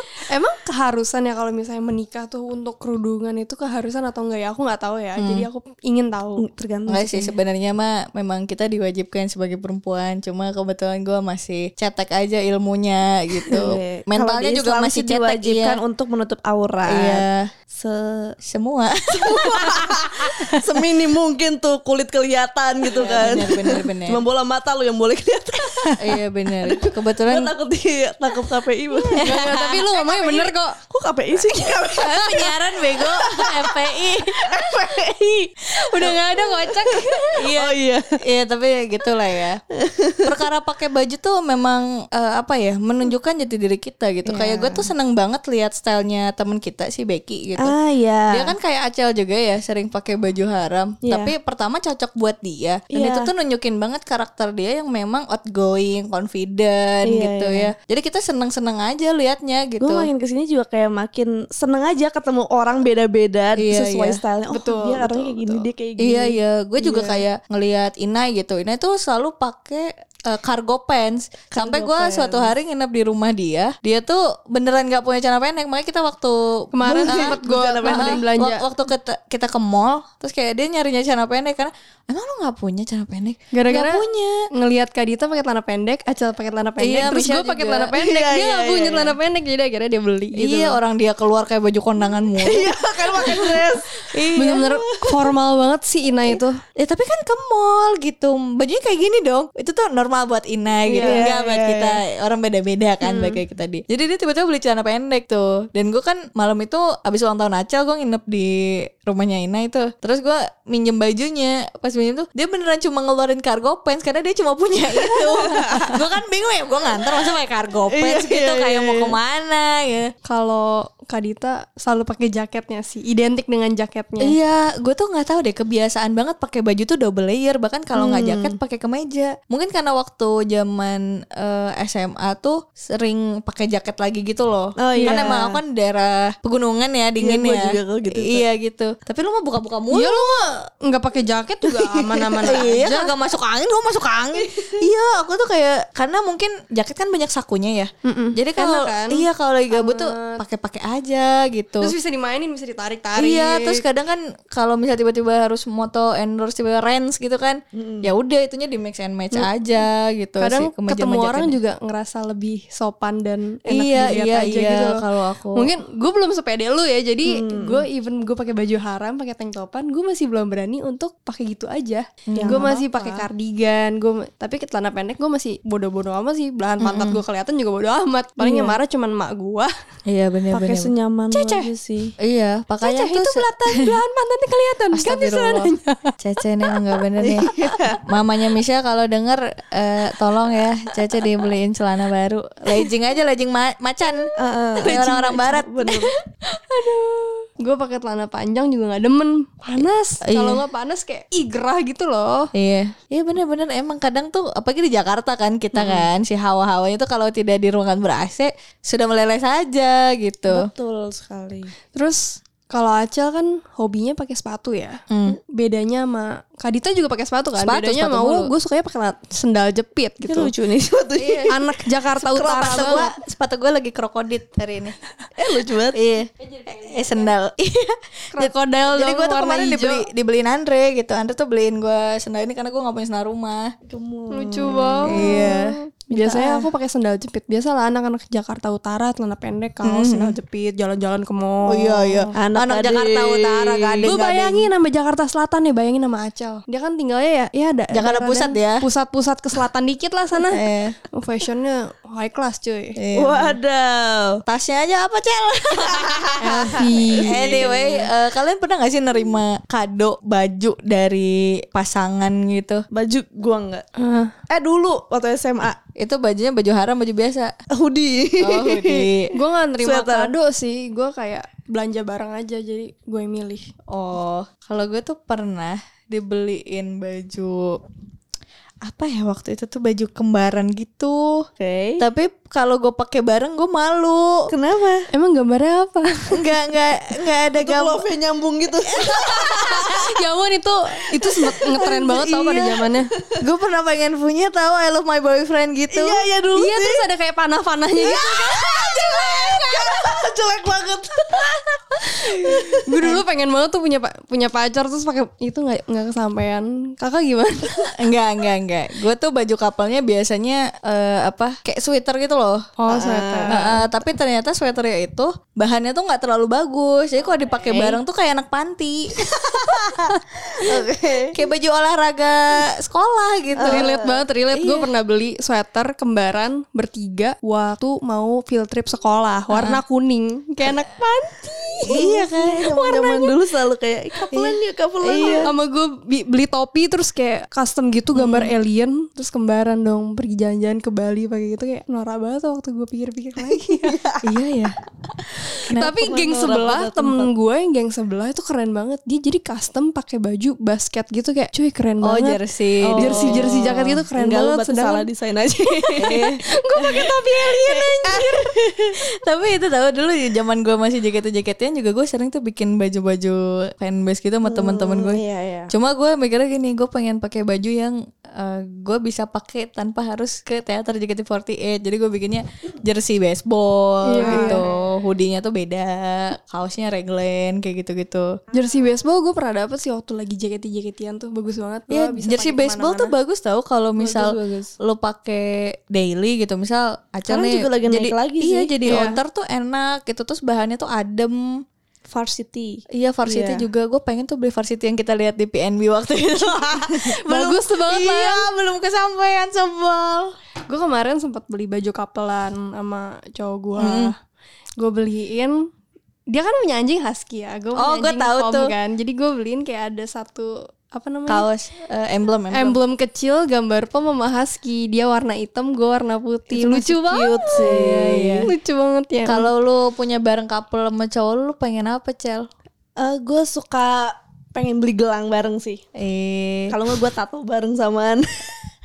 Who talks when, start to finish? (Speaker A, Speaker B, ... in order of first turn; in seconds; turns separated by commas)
Speaker A: 0.3-6.5, Speaker B: 5.2-5.5, Speaker C: 6.4-7.3, Speaker B: 6.9-15.8, Speaker C: 13.5-18.4, Speaker B: 16.9-17.5, Speaker B: 18.4-20.6, Speaker C: 19.1-38.1, Speaker B: 22.9-24.2, Speaker B: 26.0-27.5, Speaker B: 29.1-29.9, Speaker A: 29.1-30.8, Speaker B: 31.9-34.5, Speaker A: 35.9-37.3, Speaker B: 37.4-39.6, Speaker C: 39.8-40.3, Speaker B: 40.2-47.7, Speaker C: 44.2-44.9, Speaker C: 47.6-48.5, Speaker B: 48.3-60.1, Speaker C: 51.0-51.3, Speaker C: 52.9-53.3, Speaker C: 57.1-57.7, Speaker C: 59.8-67.2, Speaker B: 63.6-64.2, Speaker A: 64.5-65.7, Speaker B: 66.0-76.4, Speaker C: 71.5-72.5, Speaker A: 76.7-78.6, Speaker C: 76.8-78.2, Speaker B: 77.0-84.4, Speaker A: 83.5-90.8, Speaker B: 86.8-87.9, Speaker C: 87.9-89.2, Speaker B: 90.4-94.8, Speaker C: 92.4-94.0, Speaker A: 94.4-96.6, Speaker B: 96.8-120.1, Speaker A: 100.9-101.3, Speaker C: 100.9-102.0, Speaker A: 103.0-103.3, Speaker C: 115.2-116.0, Speaker C: 117.9-119.2, Speaker A: 120.3-124.4, Speaker B: 124.2-140.5, Speaker C: 127.9-128.6, Speaker C: 134.8-135.6, Speaker A: 134.9-135.3, Speaker C: 137.2-138.5, Speaker A: 139.9-143.1, Speaker C: 141.7-142.7, Speaker B: 142.4-151.9, Speaker C: 144.4-144.7, Speaker A: 148.1-150.4, Speaker A: 151.8-153.8, Speaker B: 153.2-161.6, Speaker C: 157.7-158.1, Speaker A: 160.4-179.7, Speaker B: 163.7-165.7, Speaker C: 167.2-167.9, Speaker B: 172.3-173.2, Speaker C: 172.3-173.1, Speaker B: 176.8-177.2, Speaker C: 178.4-178.8, Speaker B: 180.1-180.9, Speaker C: 180.5-182.2, Speaker A: 181.3-181.7, Speaker B: 182.2-184.0, Speaker A: 182.8-186.1, Speaker B: 184.9-187.5, Speaker C: 187.2-188.0, Speaker B: 188.1-195.7, Speaker C: 194.4-196.1, Speaker A: 196.5-202.5, Speaker B: 200.3-200.6, Speaker B: 202.5-210.7, Speaker C: 205.7-206.1, Speaker C: 210.5-211.7, Speaker A: 211.9-220.5, Speaker B: 215.1-215.4, Speaker B: 217.6-218.5, Speaker C: 220.2-221.7, Speaker B: 221.2-221.5, Speaker A: 221.5-223.1, Speaker B: 222.3-225.0, Speaker C: 222.4-223.0, Speaker C: 225.4-226.0, Speaker B: 225.9-233.7, Speaker A: 226.4-227.4, Speaker A: 228.3-230.1, Speaker C: 233.9-235.6, Speaker A: 234.3-242.3, Speaker B: 235.1-235.7, Speaker C: 236.1-236.7, Speaker B: 239.8-240.4, Speaker B: 241.7-244.7, Speaker C: 242.4-244.2, Speaker A: 244.1-250.6, Speaker B: 247.9-248.8, Speaker B: 250.5-250.9, Speaker A: 251.1-253.0, Speaker B: 253.0-253.6, Speaker C: 253.2-254.4, Speaker B: 254.5-262.8, Speaker C: 256.0-258.1, Speaker A: 256.4-257.6, Speaker C: 262.9-263.9, Speaker A: 264.0-264.3, Speaker C: 264.5-265.8, Speaker B: 266.0-267.5, Speaker C: 267.7-269.1, Speaker B: 268.4-269.3, Speaker A: 269.3-273.7, Speaker C: 269.8-270.3, Speaker B: 273.9-277.8, Speaker B: 278.9-281.5, Speaker C: 281.6-282.0, Speaker B: 282.0-284.4, Speaker C: 284.5-285.1, Speaker A: 285.1-286.4, Speaker B: 286.3-288.0, Speaker C: 287.6-289.9, Speaker B: 288.9-290.1, Speaker A: 289.0-293.1, Speaker C: 291.4-293.0, Speaker B: 293.4-296.2, Speaker C: 295.9-297.1, Speaker A: 296.5-299.4, Speaker C: 298.0-302.8, Speaker B: 298.8-299.9, Speaker B: 302.2-303.2, Speaker A: 302.9-307.9, Speaker B: 308.0-312.7, Speaker A: 312.8-313.8, Speaker C: 312.9-313.7, Speaker B: 313.5-319.3, Speaker C: 317.7-318.0, Speaker C: 319.4-320.0, Speaker C: 320.5-321.4, Speaker B: 321.3-323.9, Speaker C: 323.6-324.2, Speaker A: 323.6-332.1, Speaker B: 324.5-324.9, Speaker B: 329.5-329.8, Speaker B: 331.9-333.1, Speaker C: 331.9-335.5, Speaker A: 332.7-333.3, Speaker B: 334.3-335.5, Speaker A: 335.3-344.0, Speaker C: 338.2-338.4, Speaker C: 343.7-344.2, Speaker B: 344.2-344.8, Speaker A: 345.7-352.4, Speaker B: 345.7-346.0, Speaker C: 345.8-347.3, Speaker B: 352.0-354.0, Speaker C: 352.9-358.9, Speaker A: 353.0-355.1, Speaker A: 355.8-358.5, Speaker B: 356.0-356.4, Speaker B: 359.2-378.3, Speaker C: 364.5-365.7, Speaker A: 374.1-374.6, Speaker C: 374.2-374.7, Speaker A: 378.5-383.1, Speaker B: 381.9-391.4, Speaker C: 384.0-384.7, Speaker C: 387.3-389.2, Speaker A: 388.9-389.2, Speaker C: 392.1-393.7, Speaker B: 392.9-400.3, Speaker A: 396.9-398.5, Speaker A: 400.7-404.1, Speaker B: 403.8-404.1, Speaker A: 404.8-405.7, Speaker A: 406.3-411.5, Speaker B: 407.8-408.7, Speaker B: 411.3-412.8, Speaker A: 412.5-417.8, Speaker C: 416.5-418.5, Speaker B: 417.6-418.5, Speaker A: 418.4-419.5, Speaker B: 419.3-422.5, Speaker C: 423.0-425.8, Speaker B: 425.9-426.8, Speaker C: 426.7-428.5